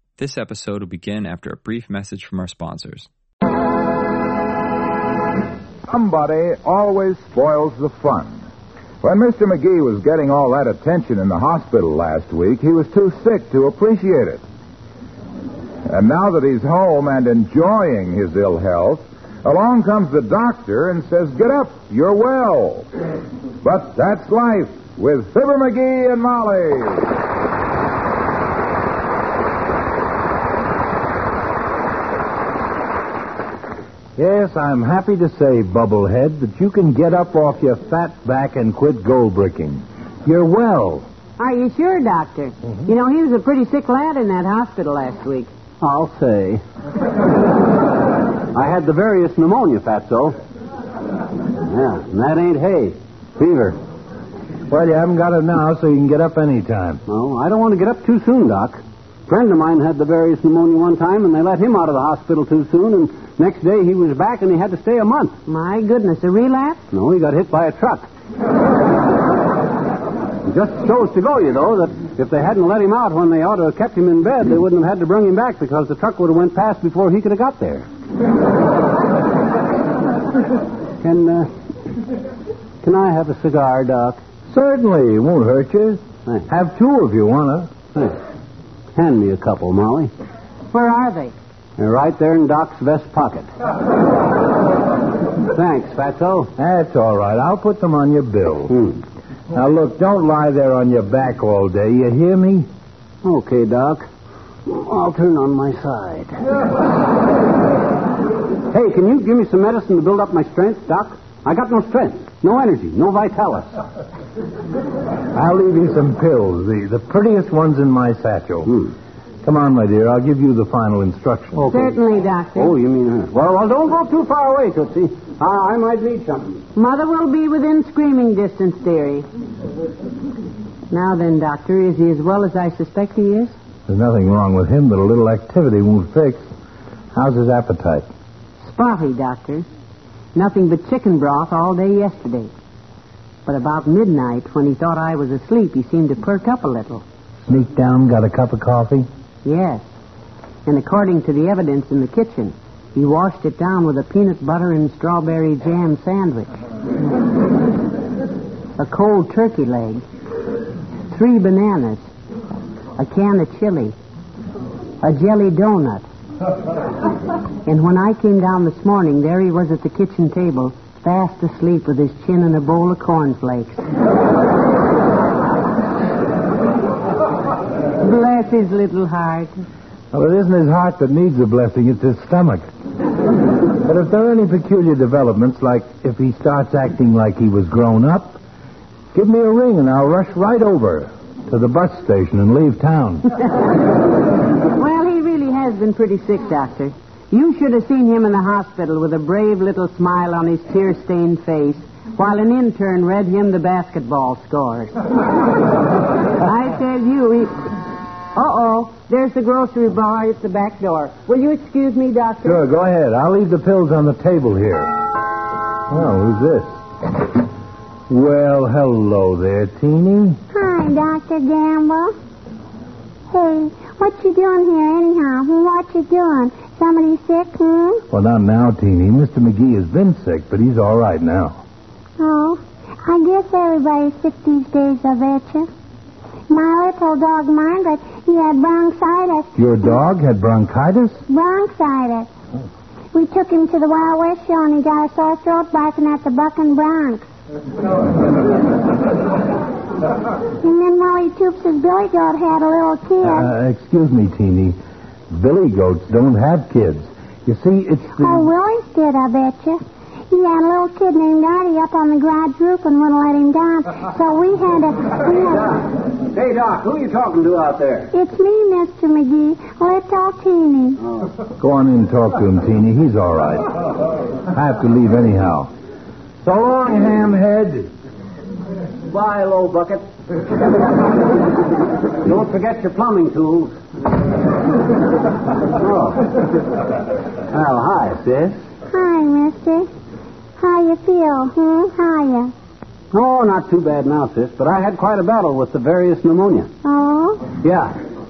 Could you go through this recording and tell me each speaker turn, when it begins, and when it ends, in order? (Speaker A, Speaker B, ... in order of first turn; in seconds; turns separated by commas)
Speaker A: 0.2-3.1, Speaker B: 5.9-8.4, Speaker B: 9.0-14.4, Speaker B: 15.9-22.9, Speaker B: 23.6-27.1, Speaker C: 34.2-41.1, Speaker D: 41.4-45.5, Speaker E: 45.8-46.6, Speaker E: 48.5-50.4, Speaker E: 51.7-53.8, Speaker C: 54.7-57.0, Speaker E: 57.1-65.4, Speaker D: 65.5-66.8, Speaker E: 66.9-68.1, Speaker E: 70.5-77.9, Speaker E: 81.0-81.5, Speaker E: 82.8-84.2, Speaker C: 84.5-87.7, Speaker E: 89.0-90.1, Speaker D: 90.7-91.3, Speaker E: 91.8-93.5, Speaker E: 95.5-96.5, Speaker C: 96.6-98.8, Speaker E: 98.7-99.0, Speaker C: 99.5-102.7, Speaker E: 103.2-104.1, Speaker E: 104.7-106.4, Speaker E: 108.7-113.7, Speaker C: 115.3-118.9, Speaker C: 119.4-121.7, Speaker E: 121.6-122.0, Speaker D: 121.7-122.7, Speaker E: 122.6-126.6, Speaker D: 126.8-129.3, Speaker D: 130.9-133.5, Speaker C: 133.9-136.5, Speaker C: 137.1-138.1, Speaker D: 138.6-139.7, Speaker D: 140.3-142.5, Speaker D: 143.5-147.0, Speaker C: 147.5-149.1, Speaker D: 149.4-149.8, Speaker D: 150.7-156.5, Speaker D: 158.8-160.0, Speaker D: 161.1-162.1, Speaker D: 163.0-163.9, Speaker D: 165.0-166.1, Speaker D: 167.7-173.8, Speaker D: 178.0-179.5, Speaker C: 180.1-182.7, Speaker C: 183.8-188.4, Speaker C: 189.1-193.3, Speaker D: 194.8-204.9, Speaker D: 206.4-207.6, Speaker D: 208.3-212.6, Speaker C: 212.4-214.9, Speaker C: 215.9-216.8, Speaker C: 218.1-220.4, Speaker F: 220.5-222.1, Speaker F: 223.3-228.0, Speaker C: 228.1-231.6, Speaker F: 232.2-235.7, Speaker F: 236.5-239.5, Speaker C: 239.6-241.2, Speaker F: 241.3-242.3, Speaker F: 243.1-247.3, Speaker F: 250.6-253.5, Speaker C: 253.2-254.8, Speaker C: 255.3-258.5, Speaker F: 258.2-265.8, Speaker E: 265.6-268.1, Speaker F: 268.1-271.0, Speaker C: 271.6-273.7, Speaker C: 274.5-275.7, Speaker C: 276.4-277.9, Speaker E: 279.1-280.1, Speaker E: 282.2-283.8, Speaker E: 285.8-286.3, Speaker E: 287.5-288.6, Speaker F: 288.9-289.9, Speaker F: 290.6-292.5, Speaker E: 293.1-296.7, Speaker F: 296.8-297.5, Speaker E: 297.6-298.0